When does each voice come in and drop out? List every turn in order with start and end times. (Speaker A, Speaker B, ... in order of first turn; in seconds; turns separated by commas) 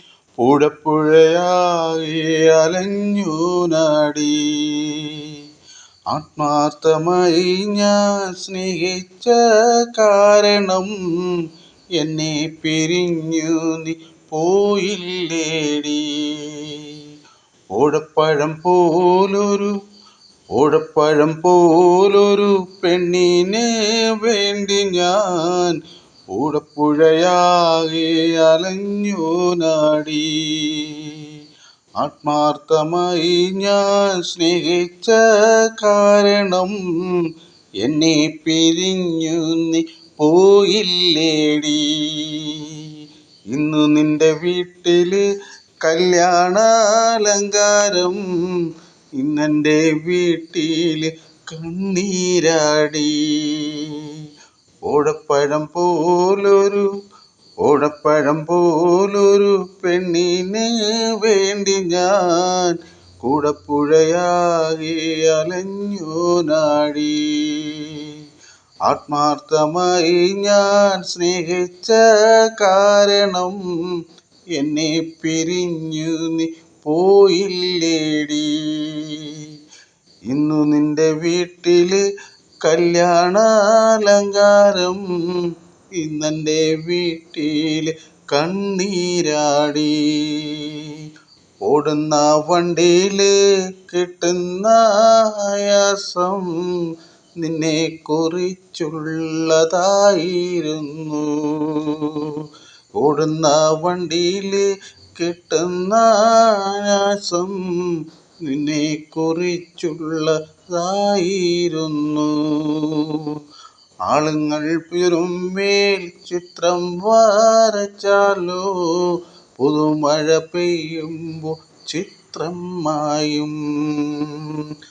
Speaker A: 0.4-5.3, Speaker A: 6.1-9.4, Speaker A: 9.9-11.0, Speaker A: 12.0-17.0, Speaker A: 17.8-19.7, Speaker A: 20.5-25.8, Speaker A: 26.3-31.3, Speaker A: 32.0-36.8, Speaker A: 37.8-42.9, Speaker A: 43.5-45.2, Speaker A: 45.8-48.2, Speaker A: 49.2-54.2, Speaker A: 54.9-56.9, Speaker A: 57.6-68.1, Speaker A: 68.9-73.6, Speaker A: 74.5-79.4, Speaker A: 80.3-82.0, Speaker A: 82.6-85.0, Speaker A: 86.0-91.0, Speaker A: 91.6-96.8, Speaker A: 97.4-102.4, Speaker A: 103.0-113.4, Speaker A: 114.1-124.6